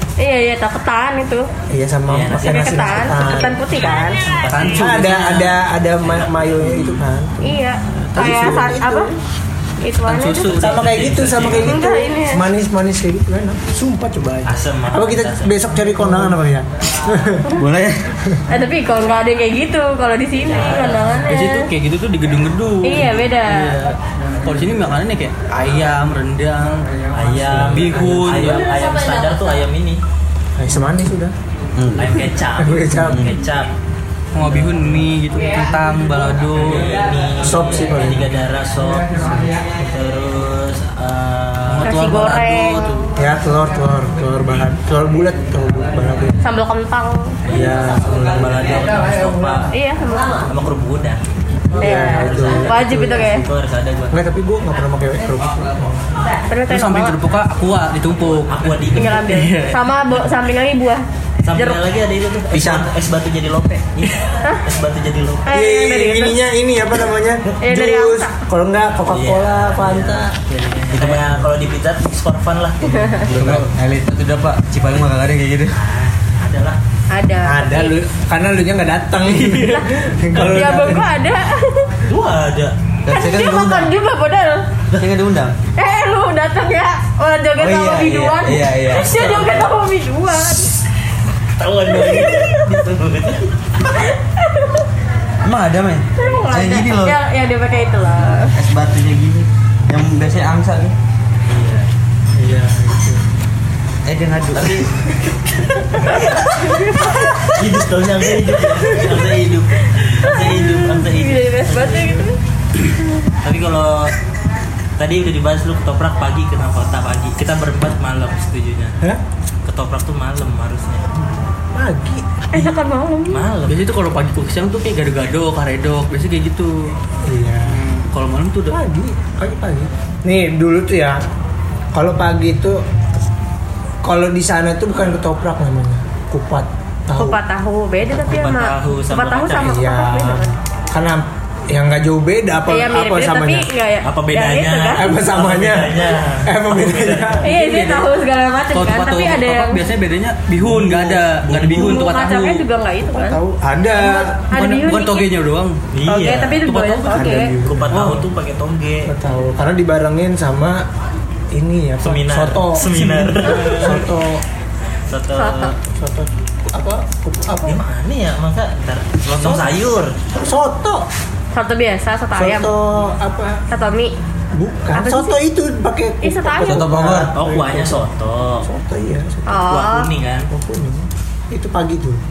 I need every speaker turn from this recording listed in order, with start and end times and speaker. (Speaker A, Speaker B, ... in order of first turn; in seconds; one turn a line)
Speaker A: 0.2-1.5
Speaker B: 1.7-3.6
Speaker C: 2.1-7.0
Speaker A: 2.4-4.3
Speaker D: 4.5-5.4
Speaker B: 4.7-7.6
Speaker A: 7.4-9.1
Speaker D: 8.1-8.5
Speaker B: 8.2-9.2
Speaker A: 9.8-10.6
Speaker D: 10.1-11.1
Speaker C: 10.5-11.9
Speaker B: 10.5-17.5
Speaker A: 11.6-12.4
Speaker C: 14.4-15.6
Speaker E: 17.5-18.1
Speaker A: 18.5-21.7
Speaker C: 20.4-21.3
Speaker D: 21.2-28.7
Speaker A: 22.8-23.8
Speaker C: 27.1-30.0
Speaker B: 27.5-28.4
Speaker B: 30.6-31.3
Speaker E: 31.8-32.2
Speaker C: 32.0-33.7
Speaker B: 32.6-33.3
Speaker E: 33.0-33.3
Speaker D: 34.3-36.9
Speaker C: 34.4-35.1
Speaker C: 36.6-42.0
Speaker B: 37.4-38.3
Speaker D: 41.7-43.1
Speaker A: 41.8-43.0
Speaker B: 43.2-46.4
Speaker A: 46.4-47.4
Speaker C: 47.5-49.7
Speaker B: 47.5-48.7
Speaker A: 49.7-50.5
Speaker C: 50.4-51.2
Speaker B: 51.7-53.1
Speaker A: 51.8-53.5
Speaker C: 51.8-54.2
Speaker B: 54.1-56.1
Speaker A: 56.5-57.2
Speaker D: 56.7-59.8
Speaker C: 58.0-59.2
Speaker A: 58.9-61.8
Speaker C: 61.4-65.5
Speaker E: 62.5-62.9
Speaker A: 65.5-66.4
Speaker B: 65.5-70.3
Speaker A: 67.6-68.3
Speaker C: 69.1-73.7
Speaker E: 70.9-71.5
Speaker A: 72.9-73.2
Speaker E: 73.3-75.8
Speaker C: 75.7-76.8
Speaker A: 77.1-78.0
Speaker B: 77.4-81.1
Speaker A: 79.6-81.9
Speaker C: 80.4-80.9
Speaker C: 82.1-82.8
Speaker E: 83.0-83.9
Speaker A: 83.1-84.7
Speaker E: 85.0-85.5
Speaker A: 85.8-90.8
Speaker E: 87.6-89.1
Speaker C: 88.9-89.7
Speaker C: 91.6-93.5
Speaker A: 91.9-92.8
Speaker A: 93.9-94.9
Speaker E: 95.4-97.2
Speaker A: 96.2-98.5
Speaker E: 98.5-101.0
Speaker C: 101.5-103.2
Speaker E: 104.1-104.9
Speaker C: 104.5-106.4
Speaker E: 106.2-107.3
Speaker A: 106.6-107.0
Speaker C: 107.2-112.3
Speaker A: 109.8-112.4
Speaker C: 113.4-114.2
Speaker C: 115.0-119.0
Speaker C: 119.7-121.2
Speaker B: 121.8-122.3
Speaker A: 122.5-123.5
Speaker C: 123.3-123.8
Speaker D: 123.7-127.0
Speaker B: 127.2-127.8
Speaker D: 127.7-128.8
Speaker B: 128.7-131.2
Speaker B: 131.9-132.8
Speaker B: 134.0-137.4
Speaker A: 137.2-140.5
Speaker C: 138.1-139.8
Speaker B: 139.6-143.7
Speaker A: 142.7-145.2
Speaker C: 144.0-147.4
Speaker B: 144.9-147.5
Speaker A: 147.4-149.8
Speaker D: 147.5-148.1
Speaker D: 148.7-152.7
Speaker B: 150.6-151.4
Speaker C: 151.5-152.0
Speaker A: 151.6-153.4
Speaker B: 153.0-154.4
Speaker A: 153.9-155.3
Speaker D: 154.5-155.8
Speaker C: 155.9-156.7
Speaker A: 156.1-157.5
Speaker D: 156.6-157.3
Speaker B: 157.1-158.1
Speaker C: 157.6-159.1
Speaker D: 157.9-158.2
Speaker B: 159.1-160.8
Speaker B: 161.5-164.4
Speaker C: 162.0-164.0
Speaker D: 163.5-163.9
Speaker C: 165.1-165.8
Speaker A: 165.3-165.7
Speaker B: 165.9-167.8
Speaker C: 167.7-170.2
Speaker B: 169.4-169.8
Speaker B: 170.3-171.1
Speaker A: 171.5-172.7
Speaker B: 172.3-173.6
Speaker A: 173.7-174.2
Speaker B: 174.6-178.1
Speaker A: 174.9-175.4
Speaker A: 176.2-176.9
Speaker E: 176.7-177.3
Speaker C: 177.3-178.7
Speaker B: 178.6-179.7
Speaker A: 179.5-180.1
Speaker C: 179.7-180.5
Speaker B: 180.5-182.2